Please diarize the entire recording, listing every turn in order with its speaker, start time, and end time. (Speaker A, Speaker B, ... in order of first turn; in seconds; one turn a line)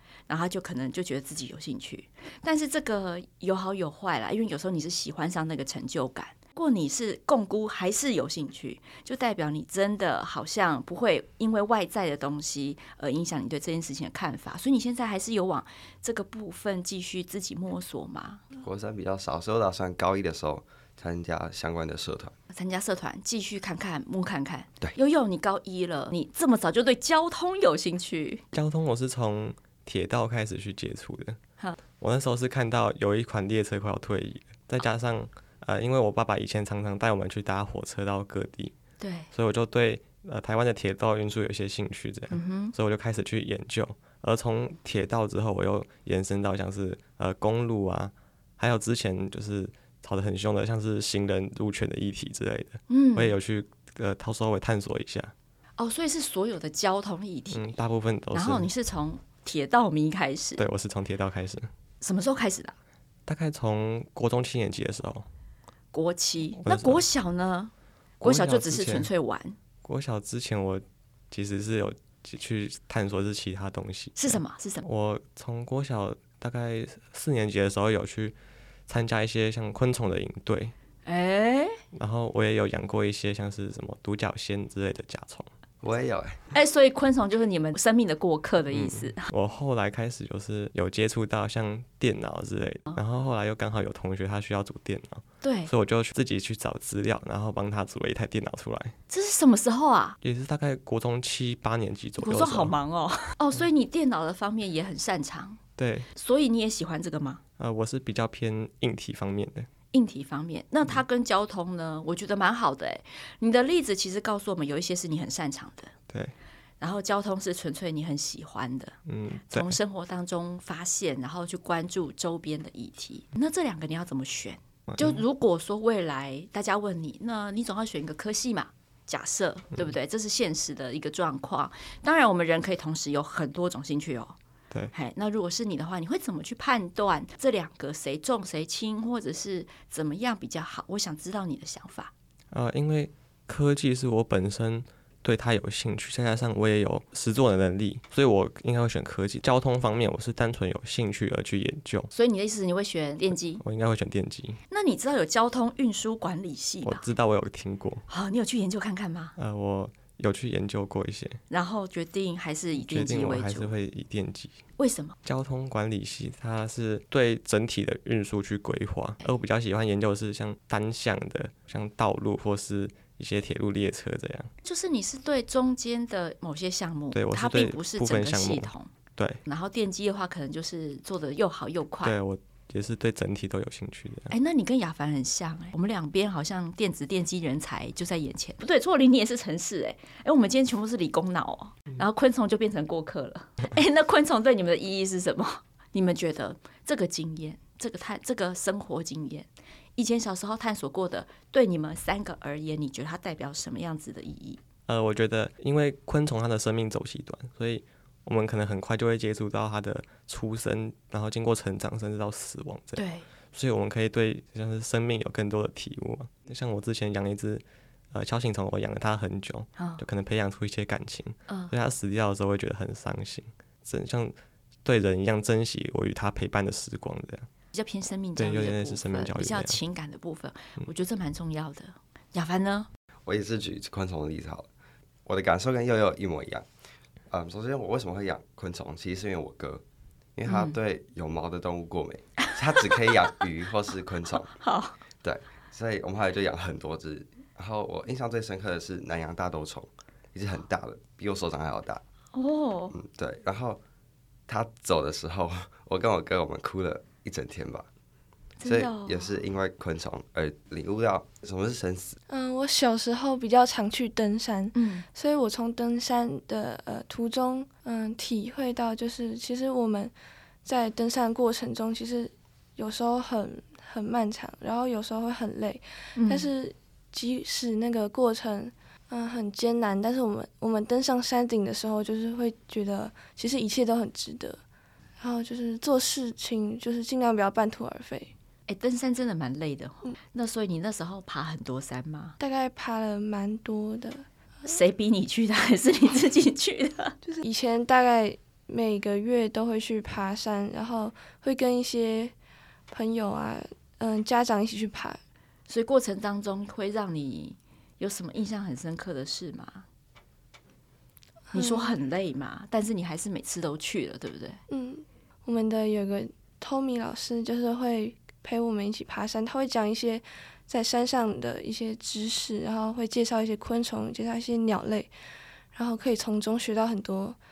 Speaker A: 0.3-18.4
Speaker B: 18.6-22.3
Speaker A: 22.5-28.4
Speaker C: 28.5-31.4
Speaker C: 32.0-38.7
Speaker A: 39.0-39.3
Speaker C: 39.3-55.3
Speaker A: 42.3-42.7
Speaker A: 52.9-53.4
Speaker A: 55.8-57.7
Speaker C: 57.5-58.7
Speaker A: 58.3-60.6
Speaker C: 60.6-61.7
Speaker A: 62.0-62.8
Speaker C: 63.3-65.3
Speaker A: 65.9-69.6
Speaker C: 66.6-67.0
Speaker C: 68.2-69.1
Speaker C: 69.8-78.3
Speaker A: 74.2-74.8
Speaker C: 78.9-80.7
Speaker A: 81.0-81.8
Speaker C: 81.9-85.5
Speaker B: 85.8-86.4
Speaker A: 86.5-89.3
Speaker C: 88.7-99.0
Speaker A: 95.4-95.7
Speaker A: 99.1-100.2
Speaker C: 100.2-102.7
Speaker A: 102.2-105.6
Speaker C: 105.8-106.1
Speaker A: 106.2-107.4
Speaker C: 107.6-109.7
Speaker A: 109.9-115.9
Speaker A: 116.8-119.0
Speaker C: 119.1-119.8
Speaker A: 119.5-134.4
Speaker C: 124.9-125.2
Speaker A: 134.9-142.1
Speaker C: 142.5-152.1
Speaker A: 152.1-153.6
Speaker C: 153.6-154.6
Speaker A: 154.7-157.1
Speaker C: 156.8-158.1
Speaker A: 158.1-159.3
Speaker C: 159.4-161.4
Speaker A: 161.5-163.7
Speaker C: 162.8-164.6
Speaker A: 164.8-165.2
Speaker C: 165.2-174.5
Speaker A: 174.6-178.9
Speaker C: 177.1-179.4
Speaker A: 179.5-182.2
Speaker C: 182.0-184.3
Speaker A: 184.3-204.6
Speaker C: 204.9-227.5
Speaker A: 213.0-213.3
Speaker A: 219.8-220.0
Speaker A: 221.5-221.7
Speaker A: 227.7-232.9
Speaker C: 228.4-229.8
Speaker B: 233.3-234.7
Speaker B: 235.3-236.7
Speaker B: 237.3-239.8
Speaker B: 240.4-244.6
Speaker A: 240.5-240.8
Speaker A: 242.5-242.9
Speaker A: 244.6-245.0
Speaker B: 245.2-252.0
Speaker A: 252.3-253.0
Speaker B: 252.9-253.8
Speaker B: 254.5-257.9
Speaker A: 258.6-259.4
Speaker B: 258.6-262.2
Speaker D: 262.3-270.1
Speaker A: 264.7-265.1
Speaker D: 270.6-284.6
Speaker A: 276.2-276.5
Speaker D: 285.2-288.3
Speaker A: 288.7-292.4
Speaker D: 292.4-294.3
Speaker A: 294.6-297.2
Speaker D: 297.2-302.3
Speaker D: 302.9-305.2
Speaker A: 305.7-309.9
Speaker D: 311.5-312.0
Speaker A: 311.5-314.6
Speaker D: 314.7-325.1
Speaker D: 325.7-327.4